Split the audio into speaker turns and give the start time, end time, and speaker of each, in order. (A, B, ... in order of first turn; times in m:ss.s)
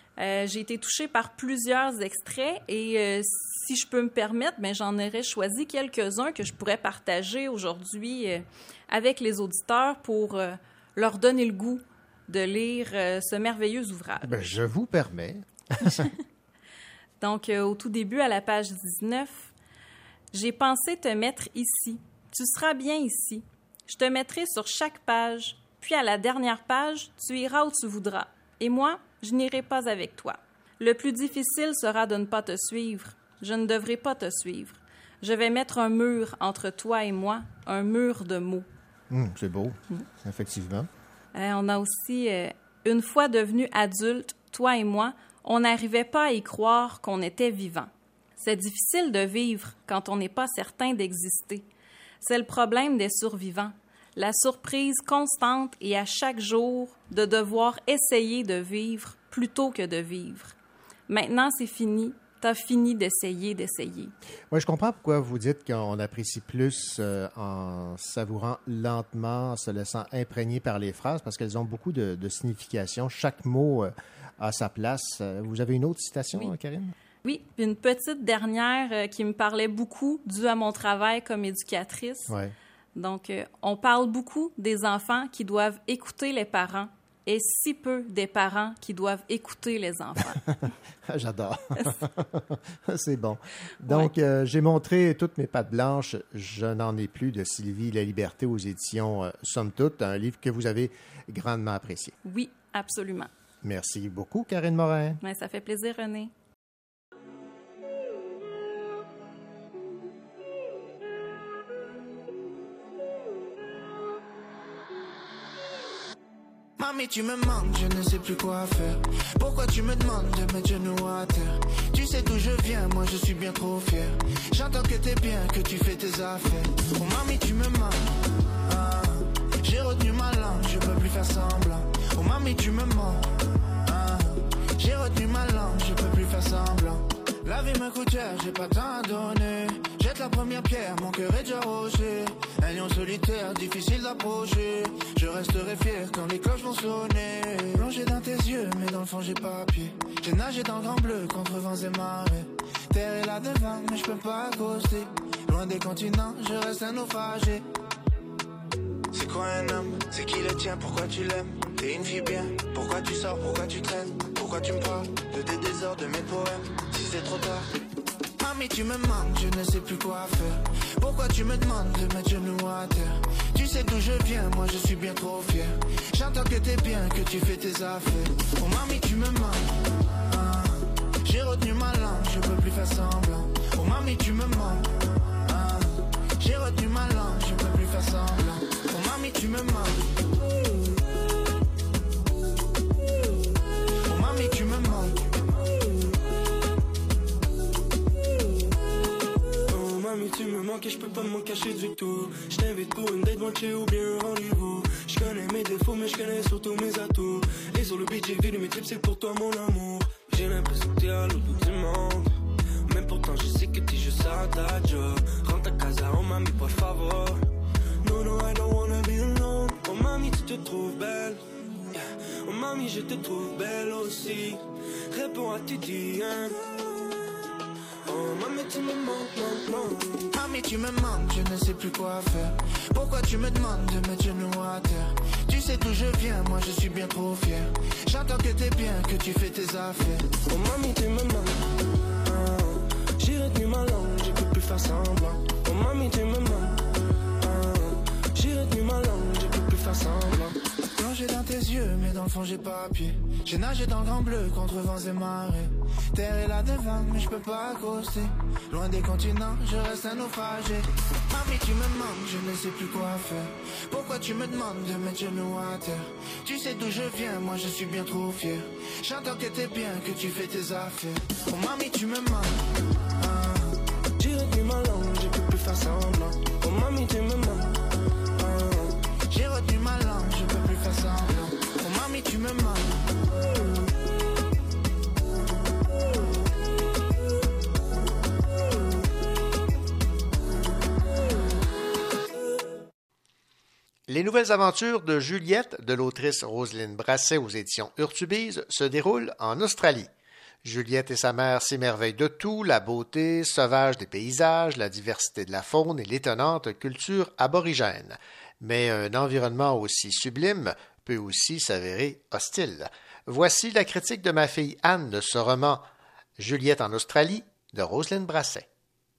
0:00.2-0:14.6 A
0:14.2-0:16.1 B
0:17.2-0:19.5 A
0:20.3-0:38.7 A
0:39.1-0:40.9 B
0:41.3-0:51.6 A
0:52.2-1:00.6 A
1:01.1-1:04.1 A
1:04.5-1:16.9 B
1:17.2-1:22.4 A
1:22.3-1:22.5 B
1:23.0-1:30.4 A
1:31.1-1:42.1 B
1:33.9-1:34.1 A
1:42.2-1:43.3 A
1:43.6-1:45.2 B
1:45.2-1:46.3 A
1:56.8-2:08.1 C
2:08.6-2:13.3 C
2:13.8-2:37.7 C
2:39.1-2:47.7 C
2:48.4-2:59.7 C
3:00.3-3:04.9 C
3:05.4-3:10.1 C
3:14.1-3:15.4 C
3:19.7-3:32.2 D
3:32.9-3:37.3 D
3:38.0-3:41.3 D
3:42.5-3:44.6 D
3:45.1-3:46.5 D
3:48.1-3:50.0 D
3:50.3-4:00.3 C
4:00.5-4:01.6 D
4:03.2-4:04.4 D
4:05.0-4:06.8 D
4:08.4-4:09.4 D
4:10.9-4:32.6 C
4:33.2-4:33.8 C
4:34.2-4:35.4 D
4:36.4-4:37.7 D
4:39.3-4:43.0 C
4:54.1-5:00.1 B
5:00.6-5:15.8 B
5:16.4-5:18.7 B